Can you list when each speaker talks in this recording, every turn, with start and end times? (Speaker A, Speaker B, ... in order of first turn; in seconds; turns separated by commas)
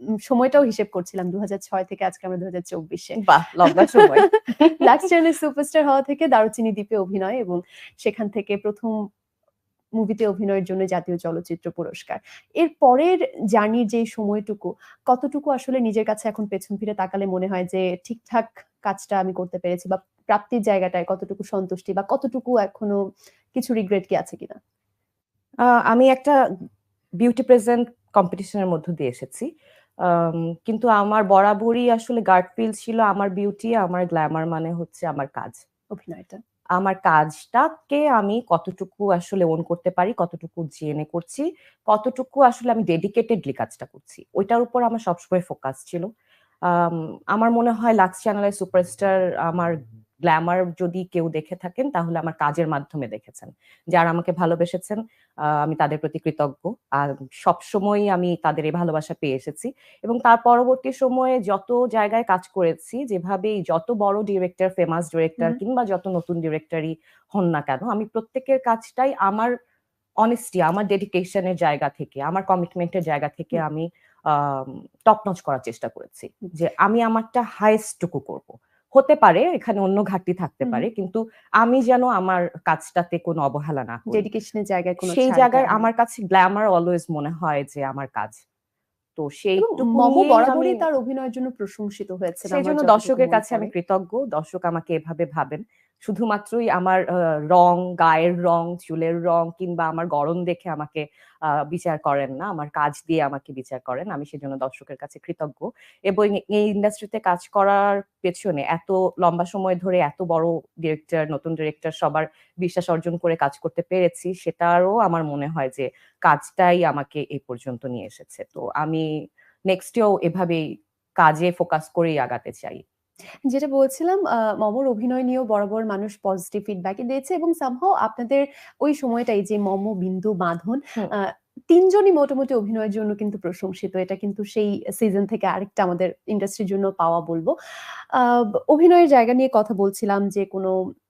Speaker A: 0.3-9.0, Speaker B: 3.2-5.0, Speaker A: 10.0-23.0, Speaker A: 23.6-24.6, Speaker B: 25.6-26.4, Speaker B: 27.2-29.5, Speaker B: 30.0-35.6, Speaker A: 35.9-36.4, Speaker B: 36.8-46.1, Speaker B: 46.7-69.5, Speaker B: 70.2-84.2, Speaker A: 84.1-85.9, Speaker B: 85.0-88.4, Speaker B: 89.2-90.8, Speaker A: 89.6-93.7, Speaker B: 92.5-119.1, Speaker B: 119.7-120.7, Speaker B: 121.2-122.8, Speaker A: 123.5-137.5, Speaker A: 138.2-140.7